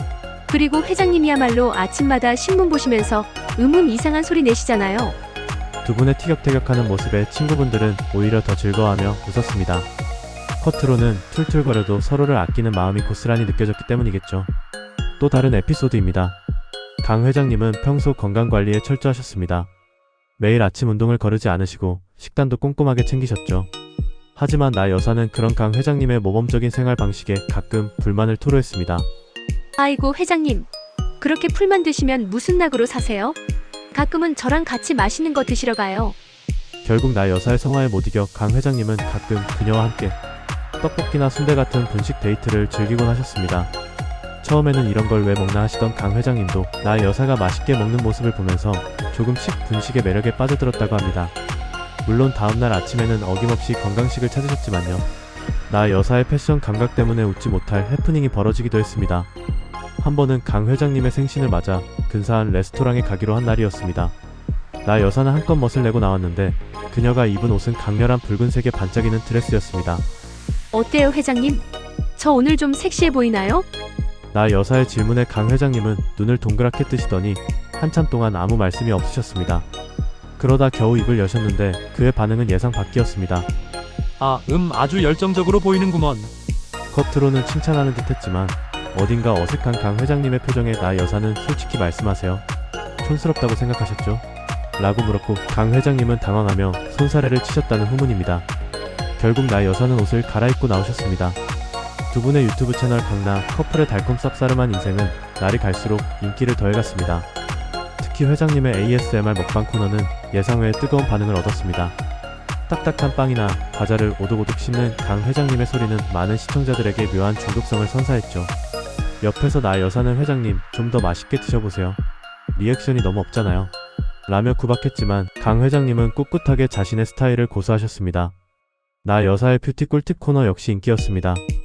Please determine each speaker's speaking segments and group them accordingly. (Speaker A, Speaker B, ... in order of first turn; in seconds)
Speaker A: 0.5-5.2, 29.8-30.7, 31.2-33.4, 33.9-36.2, 70.7-71.7, 72.2-73.7
Speaker B: 5.8-9.9, 10.6-14.5, 15.2-16.4, 17.0-19.7, 20.4-23.7, 24.4-29.1, 36.8-40.2, 40.8-43.7, 44.4-51.3, 52.0-55.1, 55.7-59.3, 60.0-64.2, 64.8-70.1, 74.3-79.7, 80.4-83.5, 86.9-92.5, 93.0-94.2, 94.8-98.5, 99.2-101.4, 102.1-107.3, 108.0-112.0, 112.7-118.5, 119.2-122.0, 122.5-123.7, 124.3-128.3, 129.0-131.4
Speaker C: 84.2-86.3